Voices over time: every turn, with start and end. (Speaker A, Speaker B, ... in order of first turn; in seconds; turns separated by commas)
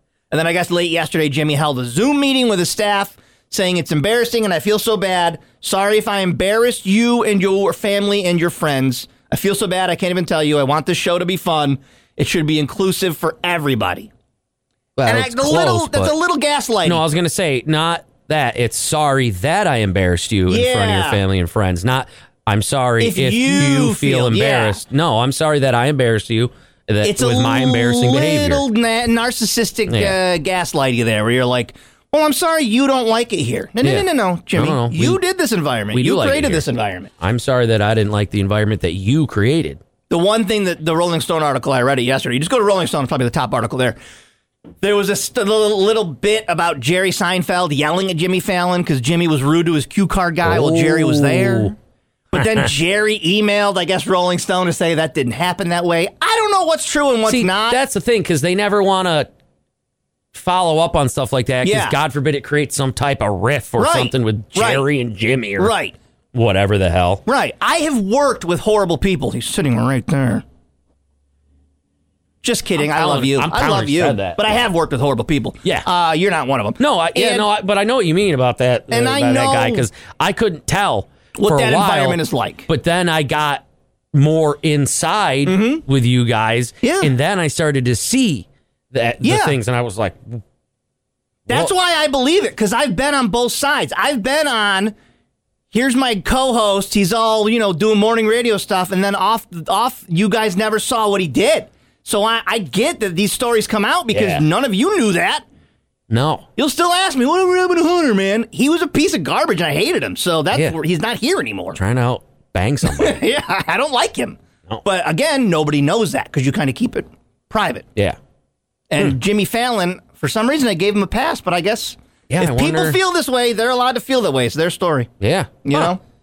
Speaker A: 0.3-14.1, Speaker B: 15.0-16.1, Speaker A: 15.1-17.0, Speaker B: 16.8-28.6, Speaker A: 20.5-21.2, Speaker A: 23.0-24.8, Speaker A: 27.0-37.1, Speaker B: 29.9-30.2, Speaker B: 33.8-35.2, Speaker B: 35.9-36.6, Speaker B: 37.2-39.8, Speaker A: 40.1-44.0, Speaker A: 44.8-51.7, Speaker B: 50.4-51.7, Speaker A: 52.3-57.8, Speaker B: 52.4-52.7, Speaker B: 57.3-59.3, Speaker B: 60.3-65.7, Speaker A: 61.6-62.0, Speaker A: 63.8-64.8, Speaker A: 65.6-65.9, Speaker B: 66.3-67.2, Speaker A: 67.2-70.4, Speaker A: 72.4-77.5, Speaker B: 72.8-74.6, Speaker B: 76.8-90.4, Speaker A: 78.9-79.8, Speaker A: 81.3-82.7, Speaker A: 85.5-85.8, Speaker A: 86.8-87.1, Speaker A: 89.2-89.5, Speaker A: 91.5-94.9, Speaker A: 95.7-105.4, Speaker B: 104.1-104.4, Speaker B: 106.1-106.5, Speaker A: 106.6-111.8, Speaker B: 111.7-113.2, Speaker A: 112.9-117.8, Speaker A: 118.9-125.1, Speaker B: 122.3-123.0, Speaker B: 125.2-125.9, Speaker A: 125.6-126.0